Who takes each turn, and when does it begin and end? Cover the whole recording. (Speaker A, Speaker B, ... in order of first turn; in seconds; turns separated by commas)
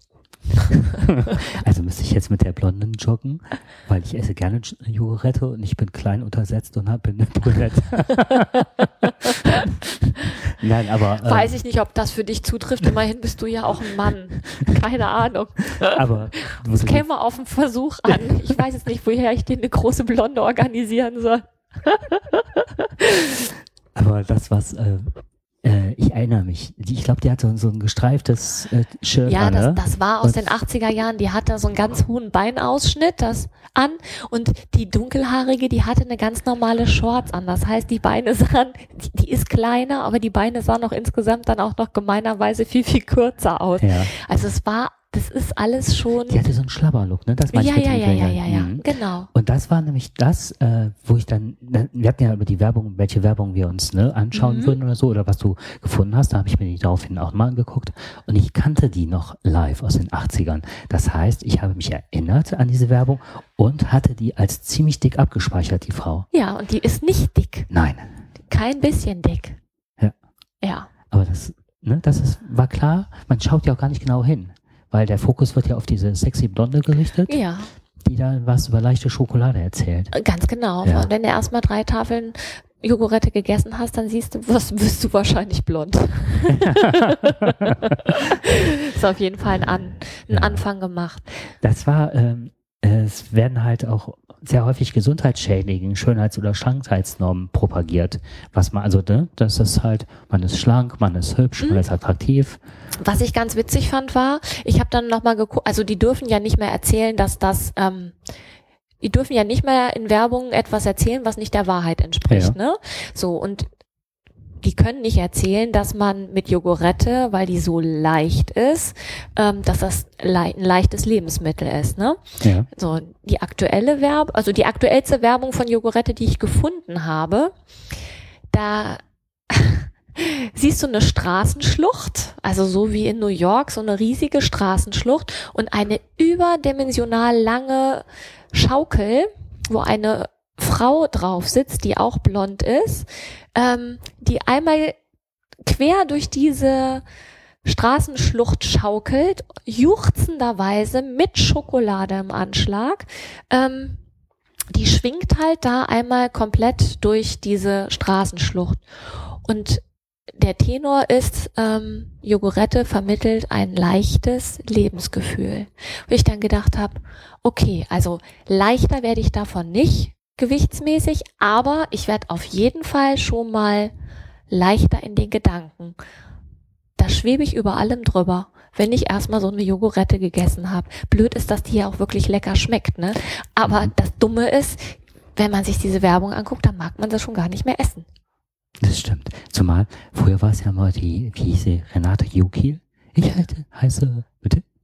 Speaker A: 1.0-8.6, Speaker A: 10.5-11.5, Speaker B: 11.2-16.0, Speaker A: 15.7-17.1, Speaker B: 16.6-23.5, Speaker A: 23.9-25.1, Speaker A: 25.6-30.4, Speaker B: 29.3-46.4, Speaker A: 43.8-44.1, Speaker A: 46.3-66.3, Speaker B: 47.5-49.3, Speaker B: 54.3-54.8, Speaker B: 66.3-67.7, Speaker A: 67.7-68.2, Speaker B: 68.5-69.6, Speaker B: 70.6-70.9, Speaker A: 71.1-77.4, Speaker B: 77.3-77.7, Speaker A: 78.0-80.1, Speaker B: 80.1-91.2, Speaker A: 80.8-81.1, Speaker A: 86.5-87.8, Speaker A: 90.3-90.6, Speaker A: 91.6-102.6, Speaker B: 103.0-108.2, Speaker B: 109.0-113.7, Speaker A: 112.3-112.5, Speaker B: 114.6-127.5, Speaker A: 122.4-122.7, Speaker B: 128.5-145.0, Speaker B: 145.6-147.0, Speaker B: 147.6-154.0, Speaker B: 154.7-158.8, Speaker B: 159.4-159.8, Speaker B: 160.3-173.9, Speaker B: 174.5-176.0, Speaker B: 177.0-188.1, Speaker A: 188.8-194.6